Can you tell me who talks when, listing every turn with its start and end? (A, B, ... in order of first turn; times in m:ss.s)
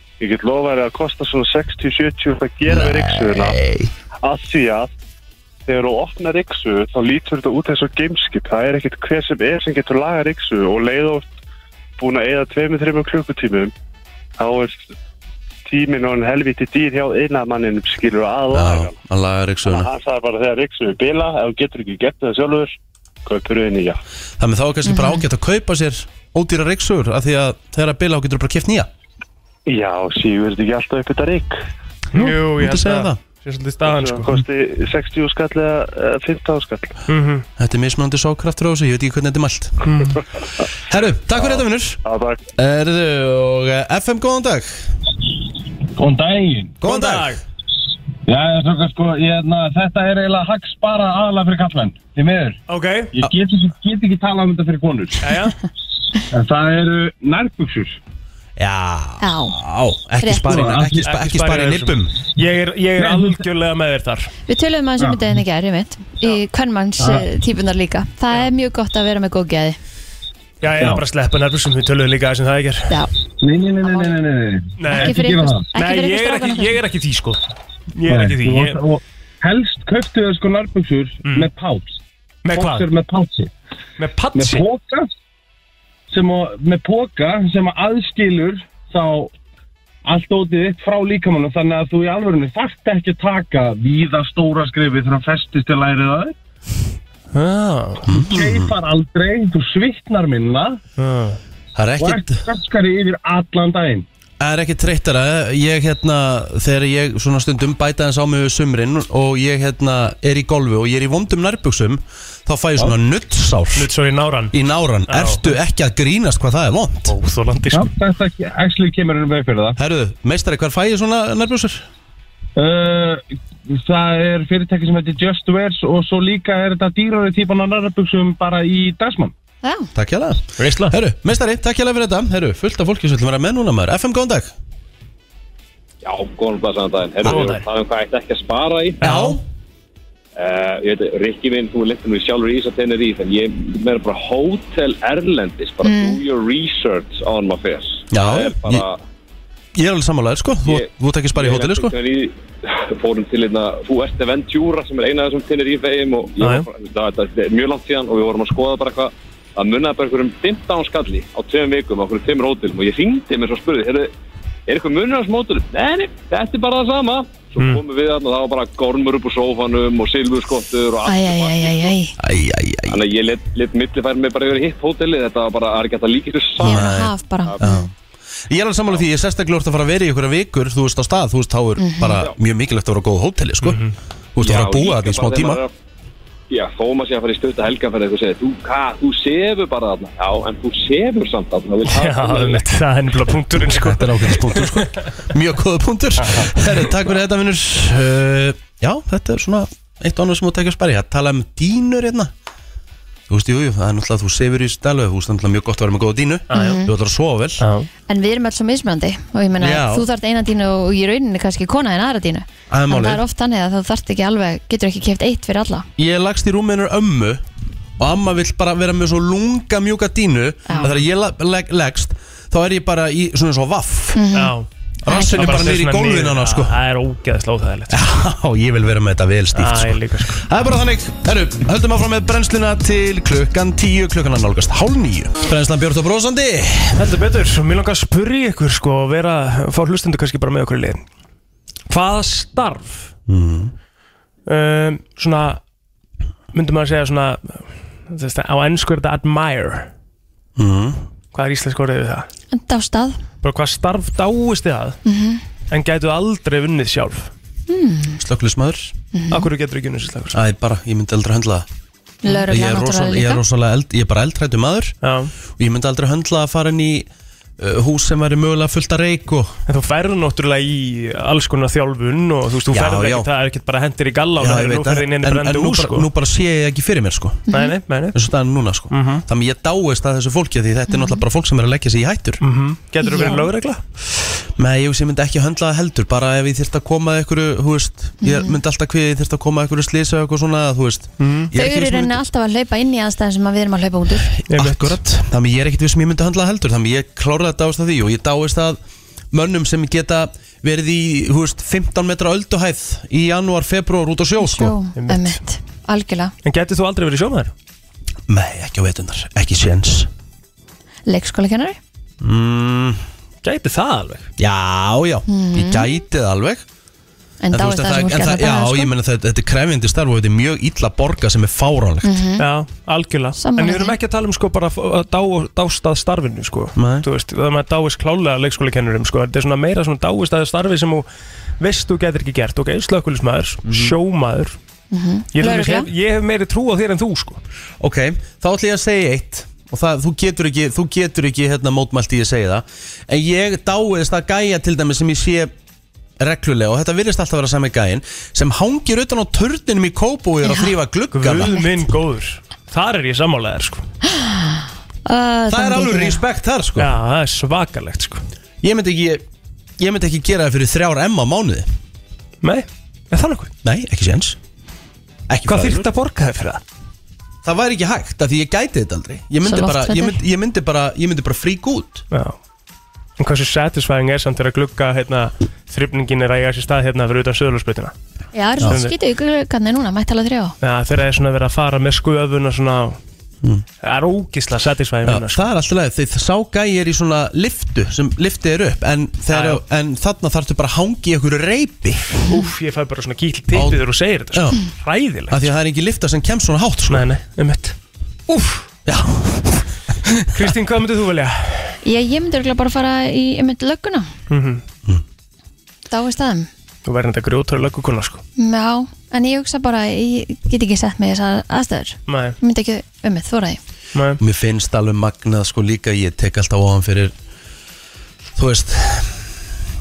0:00.2-0:03.6 A
0:02.6-0:03.9 B
0:04.2-0:04.9 A
0:05.7-0:11.3 A
0:12.0-0:13.7 A
0:14.4-0:14.9 A
0:15.6-0:18.9 A
0:18.5-0:19.9 B
0:19.6-0:22.7 A
0:23.2-0:24.0 A
0:24.4-0:28.9 B
0:24.8-0:25.2 C
0:29.7-0:31.6 A
0:32.1-0:34.3 D
0:32.1-0:33.2 B
0:33.8-0:37.0 A
0:37.1-0:37.4 D
0:37.6-0:39.8 B
0:39.8-0:40.2 D
0:40.9-0:42.0 B
0:41.3-0:42.4 A
0:42.6-0:44.9 B
0:46.0-0:46.8 E
0:46.8-0:47.4 B
0:46.8-0:47.4 D
0:48.2-0:52.6 E
0:52.7-0:53.1 D
0:53.1-0:55.3 E
0:55.2-0:55.6 D
0:56.3-0:58.0 E
0:58.6-1:02.1 B
0:59.2-0:59.6 C
1:00.2-1:00.7 C
1:00.5-1:00.8 E
1:01.0-1:04.3 D
1:03.0-1:03.4 E
1:04.5-1:09.8 C
1:07.0-1:07.2 E
1:10.6-1:12.9 D
1:13.4-1:15.7 E
1:14.8-1:17.4 D
1:14.9-1:16.8 C
1:17.9-1:18.8 D
1:18.1-1:22.0 E
1:21.2-1:21.5 D
1:22.4-1:22.9 D
1:22.5-1:23.5 E
1:24.0-1:24.6 D
1:24.3-1:25.1 E
1:26.1-1:29.3 E
1:30.0-1:36.3 E
1:37.3-1:38.1 D
1:38.1-1:38.7 B
1:38.1-1:40.8 E
1:41.0-1:41.4 D
1:41.7-1:42.4 B
1:42.0-1:44.0 E
1:44.4-1:53.9 B
1:53.7-1:54.5 D
1:54.5-1:57.1 B
1:55.1-1:55.5 D
1:57.1-1:57.9 D
1:57.7-1:59.8 E
1:59.8-2:01.8 B
2:02.6-2:09.3 E
2:09.6-2:09.9 C
2:09.9-2:14.5 B
2:10.6-2:11.0 D
2:16.0-2:19.0 F
2:17.2-2:17.6 D
2:19.0-2:19.4 D
2:19.0-2:19.4 B
2:20.4-2:29.0 F
2:25.8-2:26.2 C
2:28.1-2:28.8 B
2:29.7-2:31.9 B
2:30.6-2:44.1 F
2:36.4-2:36.7 D
2:44.7-2:52.0 F
2:51.0-2:52.1 C
2:52.2-2:53.0 B
2:52.9-2:56.9 F
2:56.6-2:57.9 C
2:56.6-2:57.9 B
2:58.5-3:03.8 B
3:01.8-3:02.2 C
3:03.6-3:03.9 D
3:04.4-3:05.6 B
3:04.4-3:05.7 F
3:06.5-3:12.6 F
3:11.9-3:15.0 D
3:13.7-3:22.3 B
3:16.3-3:16.9 D
3:23.3-3:27.6 B
3:26.5-3:26.8 D
3:26.5-3:26.9 C
3:27.6-3:27.9 D
3:28.1-3:35.9 C
3:29.6-3:30.0 B
3:32.7-3:33.2 B
3:36.0-3:37.4 B
3:38.0-3:44.2 B
3:44.1-3:44.5 C
3:44.3-3:44.7 D
3:45.0-3:46.7 B
3:45.1-3:45.6 C
3:45.2-3:48.0 D
3:47.9-3:57.0 B
3:49.5-3:50.4 D
3:56.9-4:01.0 D
4:01.9-4:03.1 D
4:03.3-4:03.7 B
4:04.5-4:05.6 D
4:06.5-4:09.9 D
4:10.6-4:11.0 B
4:11.3-4:12.3 D
4:12.5-4:13.2 C
4:13.4-4:15.0 D
4:15.0-4:15.4 C
4:15.7-4:17.3 D
4:17.7-4:18.2 C
4:18.2-4:18.9 B
4:19.1-4:19.5 C
4:19.3-4:20.4 D
4:20.3-4:21.7 B
4:22.2-4:23.4 C
4:22.4-4:25.0 B
4:25.0-4:25.3 D
4:25.6-4:27.1 B
4:27.6-4:29.6 B
4:29.7-4:36.1 D
4:32.7-4:33.3 B
4:34.4-4:37.5 B
4:37.5-4:38.2 D
4:38.1-4:42.4 B
4:38.9-4:39.2 D
4:40.9-4:41.2 C
4:42.4-4:43.8 D
4:43.0-4:43.4 C
4:44.6-4:52.2 B
4:48.2-4:48.6 C
4:51.2-4:51.5 D
4:51.5-4:54.3 C
4:54.3-4:58.8 B
4:54.5-4:55.0 D
4:59.3-5:04.7 B
5:04.4-5:06.3 C
5:05.0-5:05.4 D
5:06.4-5:07.5 D
5:08.3-5:10.1 B
5:11.1-5:11.8 C
5:12.2-5:13.0 B
5:13.4-5:14.3 D
5:14.4-5:16.6 B
5:15.3-5:16.0 C
5:17.4-5:18.9 C
5:17.5-5:22.2 B
5:22.0-5:22.4 C
5:22.4-5:31.1 D
5:23.4-5:24.0 C
5:26.8-5:27.0 B
5:31.6-5:34.6 D
5:33.6-5:33.9 B
5:34.9-5:35.9 C
5:35.3-5:37.4 D
5:37.8-5:45.5 B
5:46.2-5:51.6 B
5:51.1-5:53.8 D
5:54.2-5:56.2 C
5:55.5-5:56.9 B
5:56.8-5:58.2 D
5:58.6-5:59.2 B
5:59.8-6:01.7 B
6:02.4-6:03.5 D
6:03.6-6:04.4 B
6:05.3-6:05.9 B
6:05.5-6:06.6 D
6:07.4-6:12.0 B
6:09.4-6:10.2 C
6:12.1-6:12.4 D
6:13.2-6:17.9 D
6:18.3-6:20.6 C
6:18.6-6:18.9 D
6:20.6-6:23.0 D
6:23.8-6:25.4 D
6:25.0-6:32.2 B
6:29.3-6:29.6 D
6:32.3-6:35.5 D
6:33.5-6:33.8 B
6:34.3-6:34.6 B
6:35.3-6:37.1 B
6:36.9-6:37.7 D
6:38.3-6:38.6 D
6:38.8-6:40.5 B
6:40.3-6:41.8 D
6:41.8-6:44.1 C
6:44.3-6:44.6 D
6:45.9-6:46.5 C
6:46.8-6:48.2 D
6:48.4-6:53.6 C
6:52.1-6:52.4 D
6:53.9-6:54.2 D
6:54.2-6:57.1 B
6:58.4-6:59.5 B